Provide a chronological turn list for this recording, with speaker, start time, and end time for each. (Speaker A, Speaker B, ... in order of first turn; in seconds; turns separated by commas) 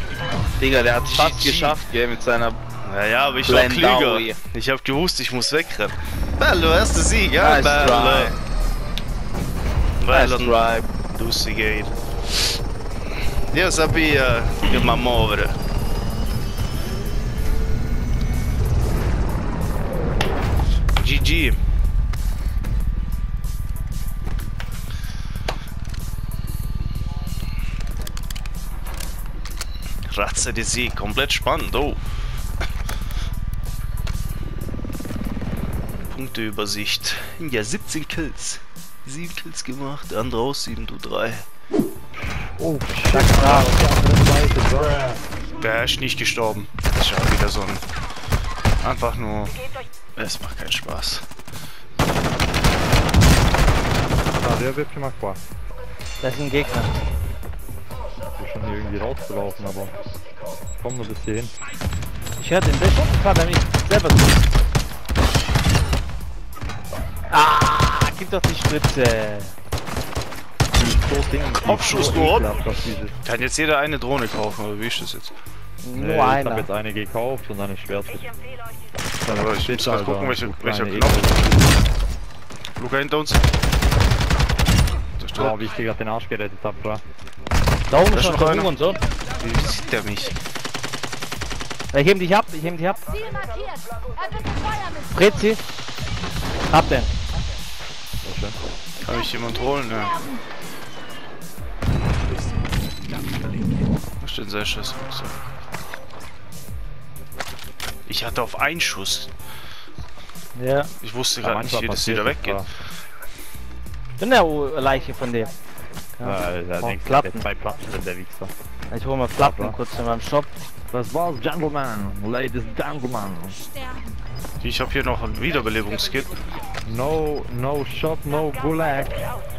Speaker A: 0.6-2.6, Speaker B: 1.0-1.8, Speaker B: 2.8-8.4, Speaker A: 3.5-4.4, Speaker A: 7.4-8.4, Speaker B: 10.0-12.6, Speaker A: 10.1-10.9, Speaker B: 13.5-15.6, Speaker B: 21.0-21.6, Speaker B: 30.1-32.0, Speaker B: 36.0-41.5, Speaker C: 42.6-45.2, Speaker D: 43.1-43.7, Speaker B: 45.6-47.8, Speaker B: 48.8-51.3, Speaker C: 54.4-55.4, Speaker D: 56.2-56.9, Speaker C: 58.4-59.9, Speaker C: 60.8-61.5, Speaker D: 62.4-64.4, Speaker D: 67.3-69.5, Speaker C: 70.8-73.2, Speaker B: 71.6-72.5, Speaker B: 73.2-75.3, Speaker D: 75.8-76.7, Speaker C: 76.0-78.3, Speaker C: 79.2-81.7, Speaker B: 79.2-81.5, Speaker B: 82.8-83.5, Speaker B: 85.2-85.7, Speaker C: 85.3-87.0, Speaker D: 87.9-89.0, Speaker B: 88.1-88.7, Speaker B: 89.4-90.4, Speaker D: 91.9-93.3, Speaker D: 95.1-95.6, Speaker D: 96.7-97.1, Speaker C: 98.2-98.6, Speaker B: 99.0-100.3, Speaker B: 104.2-105.5, Speaker B: 108.1-109.3, Speaker D: 110.5-110.9, Speaker B: 111.0-112.8, Speaker C: 111.4-112.7, Speaker D: 114.2-115.5, Speaker D: 116.2-117.5, Speaker C: 116.2-118.5, Speaker D: 118.9-120.5, Speaker C: 119.3-119.8, Speaker C: 120.9-123.6, Speaker B: 124.6-126.4, Speaker C: 126.8-129.2